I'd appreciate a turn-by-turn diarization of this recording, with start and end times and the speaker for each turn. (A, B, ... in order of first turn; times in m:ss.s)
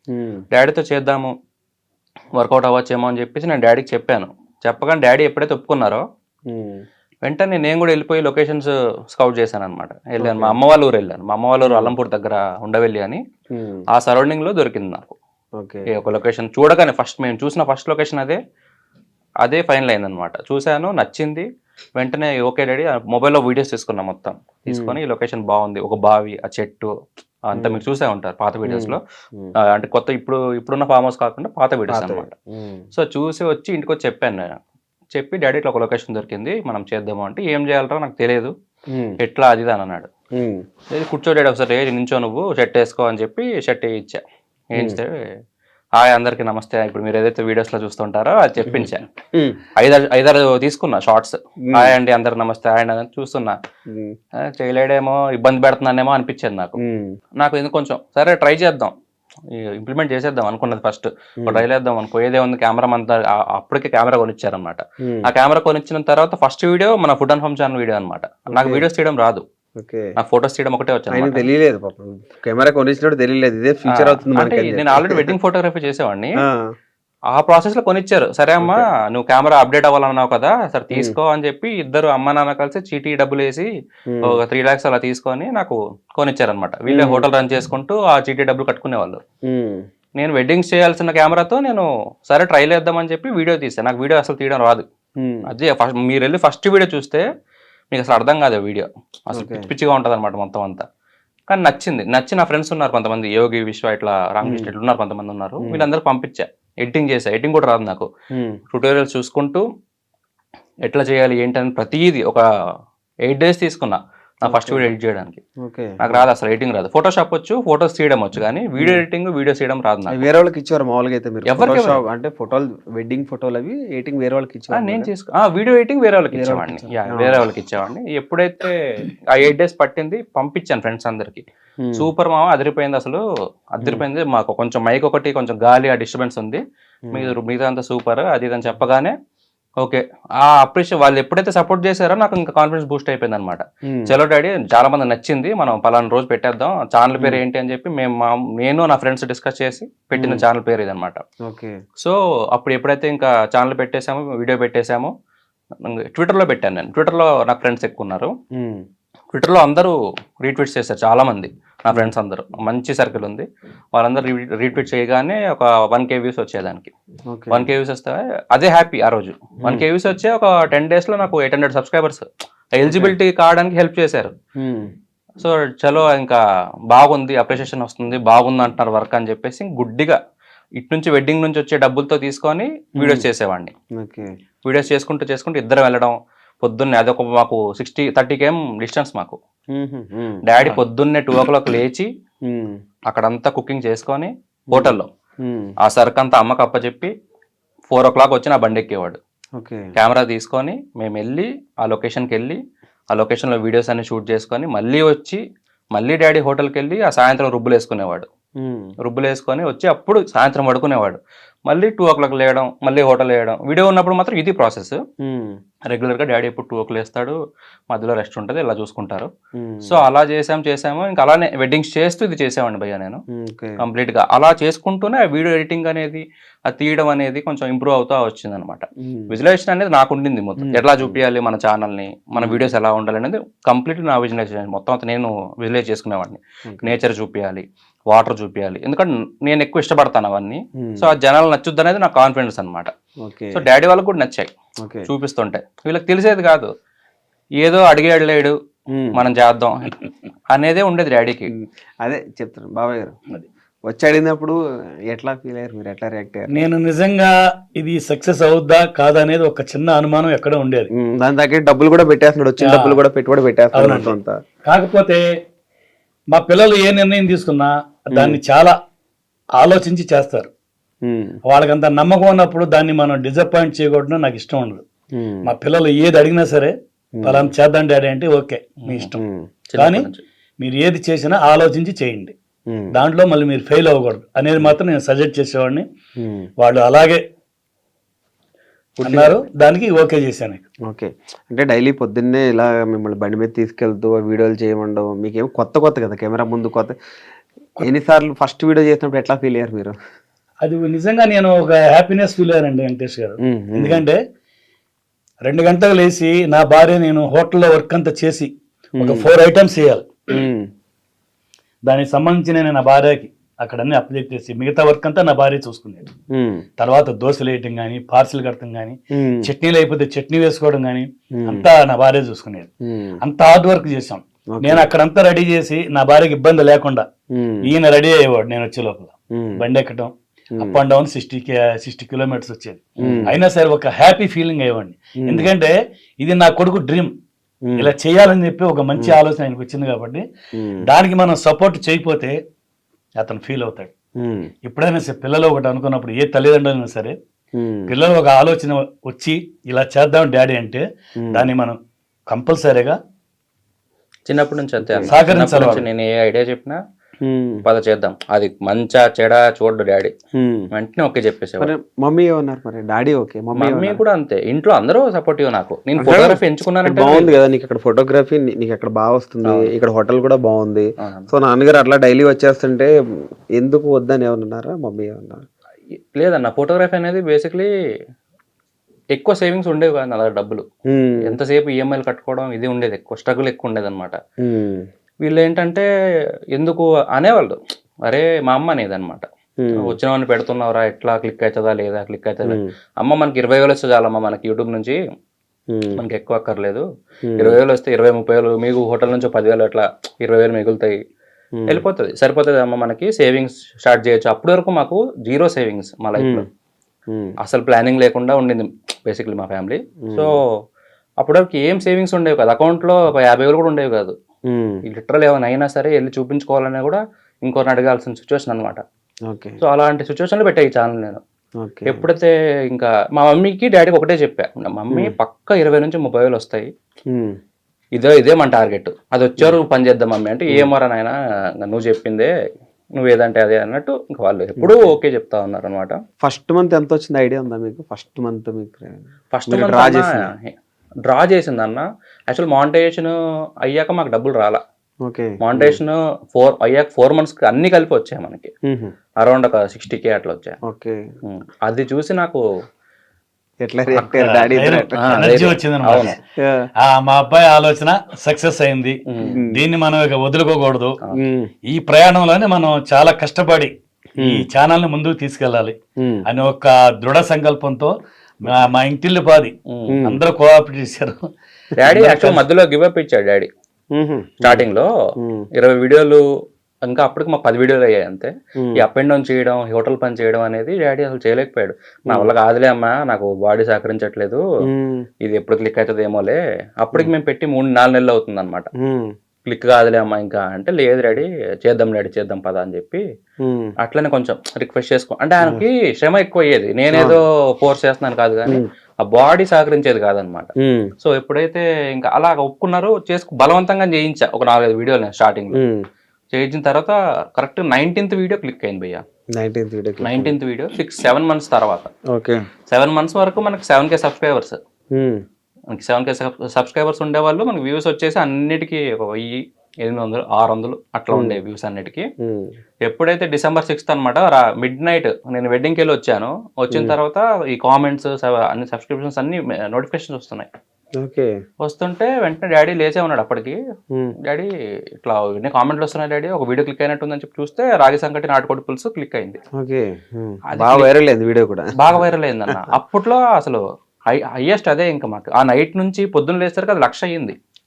0:00.1-0:00.4 A
0:00.5-0:01.3 B
0:02.4-0:06.0 B
0:06.5-0:06.8 A
0:07.2-0:13.2 B
0:10.2-0:10.6 A
0:11.6-0:11.9 A
0:13.5-0:13.8 A
0:13.9-0:15.2 B
0:15.6-0:15.8 A
0:15.9-0:18.4 B
0:19.4-0:21.4 B
0:22.0-0:26.9 B
0:24.7-0:25.0 A
0:27.5-0:29.0 B
0:27.5-0:27.8 A
0:28.7-0:29.5 A
0:29.6-0:32.3 B
0:31.9-0:32.9 A
0:32.9-0:34.6 B
0:35.1-0:38.5 B
0:39.2-0:40.1 B
0:40.4-0:40.6 A
0:40.9-0:45.2 B
0:46.0-0:49.0 B
0:48.6-0:49.6 A
0:49.8-0:53.6 B
0:51.7-0:52.0 A
0:53.9-0:54.2 A
0:54.5-0:56.8 B
0:56.8-0:57.1 A
0:57.4-0:58.9 B
0:59.5-1:09.4 B
1:08.5-1:08.8 A
1:09.8-1:10.1 A
1:10.2-1:11.4 B
1:11.1-1:15.4 A
1:13.9-1:16.4 B
1:17.3-1:23.7 B
1:24.1-1:24.4 A
1:24.3-1:29.2 B
1:26.9-1:27.2 A
1:29.5-1:29.8 A
1:30.2-1:34.8 B
1:35.2-1:35.4 A
1:35.5-1:37.2 B
1:37.9-1:40.8 B
1:39.3-1:39.7 A
1:41.5-1:48.1 B
1:44.4-1:44.7 A
1:48.7-1:49.6 B
1:50.8-1:52.4 B
1:53.3-1:55.4 B
1:54.4-1:54.9 A
1:55.6-1:56.2 A
1:56.0-2:00.2 B
2:00.1-2:05.1 A
2:01.5-2:02.0 B
2:04.7-2:11.4 B
2:06.3-2:07.4 A
2:11.8-2:12.1 A
2:12.0-2:13.2 B
2:13.7-2:16.6 B
2:17.1-2:17.3 A
2:17.1-2:19.1 B
2:19.8-2:31.2 B
2:30.2-2:30.4 A
2:31.4-2:31.8 A
2:32.0-2:35.1 B
2:35.8-2:38.3 B
2:38.5-2:38.8 A
2:39.3-2:46.9 B
2:47.3-2:47.6 A
2:47.5-2:54.3 B
2:52.9-2:53.1 A
2:54.6-2:54.9 A
2:55.4-2:56.4 B
2:56.9-3:00.2 B
3:00.8-3:03.7 B
3:03.0-3:03.2 A
3:04.0-3:04.3 A
3:04.6-3:09.4 B
3:09.7-3:10.8 A
3:10.4-3:12.1 B
3:12.4-3:12.8 A
3:13.1-3:15.1 B
3:14.7-3:15.7 A
3:15.8-3:17.1 B
3:17.9-3:19.2 B
3:19.6-3:19.9 A
3:19.9-3:22.6 B
3:23.1-3:25.4 B
3:25.9-3:28.3 B
3:28.6-3:28.9 A
3:29.0-3:35.0 B
3:35.2-3:35.6 A
3:35.9-3:37.4 B
3:37.9-3:39.3 B
3:39.6-3:40.0 A
3:39.8-3:43.2 B
3:43.3-3:43.8 A
3:43.8-4:02.9 B
3:49.0-3:49.3 A
3:50.6-3:51.2 A
3:52.4-3:52.7 A
3:56.7-3:57.0 A
4:00.8-4:01.1 A
4:03.2-4:03.6 A
4:03.5-4:04.5 B
4:04.8-4:05.1 A
4:05.1-4:06.7 B
4:07.6-4:08.5 B
4:08.9-4:09.2 A
4:09.1-4:10.0 B
4:10.5-4:11.5 B
4:12.0-4:13.1 A
4:13.9-4:14.6 A
4:15.1-4:16.6 A
4:16.5-4:20.9 C
4:20.9-4:24.4 A
4:22.6-4:23.0 C
4:23.7-4:25.2 C
4:26.3-4:28.7 C
4:28.1-4:28.4 A
4:29.6-4:30.5 C
4:31.0-4:31.4 A
4:31.4-4:34.8 C
4:35.1-4:35.5 A
4:35.4-4:36.7 C
4:37.2-4:37.5 A
4:37.2-4:39.2 C
4:38.8-4:39.1 B
4:39.1-4:39.5 A
4:39.7-4:40.2 B
4:39.8-4:40.1 C
4:40.6-4:42.3 C
4:42.7-4:43.0 A
4:42.9-4:45.8 C
4:46.2-4:46.5 A
4:46.6-4:47.2 C
4:49.0-4:49.3 B
4:49.0-4:50.6 C
4:50.9-4:57.0 A
4:57.8-4:59.9 A
5:00.6-5:04.2 C
5:03.4-5:04.0 A
5:05.4-5:10.1 C
5:09.0-5:09.3 A
5:10.3-5:10.7 A
5:11.8-5:16.1 C
5:16.3-5:16.7 A
5:16.8-5:22.7 C
5:19.1-5:19.5 A
5:21.3-5:21.6 A
5:22.8-5:23.2 A
5:23.2-5:27.0 C
5:24.5-5:24.9 A
5:27.3-5:27.7 A
5:27.6-5:37.1 C
5:29.3-5:29.6 A
5:33.0-5:33.4 A
5:35.2-5:35.5 A
5:37.6-5:37.9 A
5:37.8-5:40.2 C
5:40.5-5:40.9 A
5:40.8-5:42.4 C
5:43.2-5:43.9 C
5:44.2-5:44.5 A
5:44.6-5:47.2 C
5:47.6-5:47.9 A
5:47.9-5:51.8 C
5:51.2-5:51.5 A
5:52.3-5:53.0 C
5:54.3-5:56.8 B
5:54.8-5:55.1 A
5:55.1-5:55.8 C
5:57.2-5:57.6 A
5:57.6-6:00.1 B
6:00.4-6:00.7 A
6:00.7-6:01.7 B
6:01.6-6:04.0 A
6:03.6-6:07.3 B
6:06.0-6:12.9 A
6:11.0-6:11.3 B
6:13.6-6:15.4 A
6:16.2-6:17.7 B
6:19.1-6:20.6 B
6:20.9-6:21.4 A
6:21.2-6:24.2 B
6:24.4-6:24.8 A
6:25.2-6:25.8 B
6:26.5-6:29.2 B
6:29.6-6:30.0 A
6:29.8-6:35.0 B
6:32.4-6:32.7 A
6:35.7-6:36.0 A
6:36.0-6:36.8 B
6:37.3-6:37.6 A
6:37.4-6:41.0 B
6:41.6-6:41.8 A
6:41.7-6:46.4 B
6:46.2-6:46.4 A
6:47.1-6:47.3 A
6:47.4-6:50.4 B
6:50.0-6:50.3 A
6:51.2-6:54.1 B
6:54.5-6:54.8 A
6:54.9-6:58.8 B
6:59.3-6:59.6 A
6:59.6-7:01.2 B
7:01.6-7:02.0 A
7:01.9-7:06.7 B
7:08.0-7:12.3 B
7:13.0-7:16.0 B
7:14.6-7:14.9 A
7:16.2-7:18.9 A
7:19.3-7:20.5 B
7:19.5-7:20.3 A
7:21.1-7:23.1 B
7:23.6-7:24.6 B
7:25.0-7:25.8 A
7:25.4-7:28.5 B
7:28.7-7:28.9 A
7:29.2-7:30.6 B
7:30.7-7:31.0 A
7:31.2-7:32.4 B
7:33.6-7:35.2 A
7:33.9-7:36.2 C
7:35.0-7:36.2 B
7:36.4-7:36.7 A
7:36.8-7:41.0 C
7:39.2-7:39.6 A
7:41.2-7:41.5 A
7:41.7-7:45.7 C
7:44.2-7:44.4 A
7:46.0-7:46.2 A
7:46.2-7:47.9 C
7:48.4-7:49.5 C
7:48.4-7:48.7 A
7:49.7-7:49.9 B
7:49.9-7:50.2 A
7:50.0-7:51.2 C
7:51.8-7:53.5 B
7:51.9-7:52.4 C
7:53.9-7:54.7 A
7:54.4-7:54.9 B
7:55.2-7:55.5 A
7:55.6-7:56.2 B
7:56.8-8:04.4 B
7:58.6-7:58.8 A
8:04.6-8:05.1 A
8:05.2-8:08.7 B
8:08.8-8:09.1 A
8:09.4-8:13.0 B
8:13.4-8:13.7 A
8:13.8-8:20.5 B
8:20.6-8:20.9 A
8:21.0-8:25.6 B
8:25.5-8:25.8 A
8:26.3-8:29.0 B
8:29.4-8:30.3 A
8:30.0-8:31.9 B
8:32.1-8:32.4 A
8:32.7-8:34.6 B
8:34.9-8:35.2 A
8:35.7-8:42.0 B
8:41.1-8:41.4 A
8:42.2-8:42.5 A
8:42.8-8:50.5 B
8:51.0-8:51.3 A
8:51.6-8:53.6 B
8:54.2-8:54.5 B
8:55.0-8:59.4 B
8:59.6-9:02.7 A
9:00.5-9:00.9 B
9:01.8-9:03.6 B
9:04.1-9:07.3 B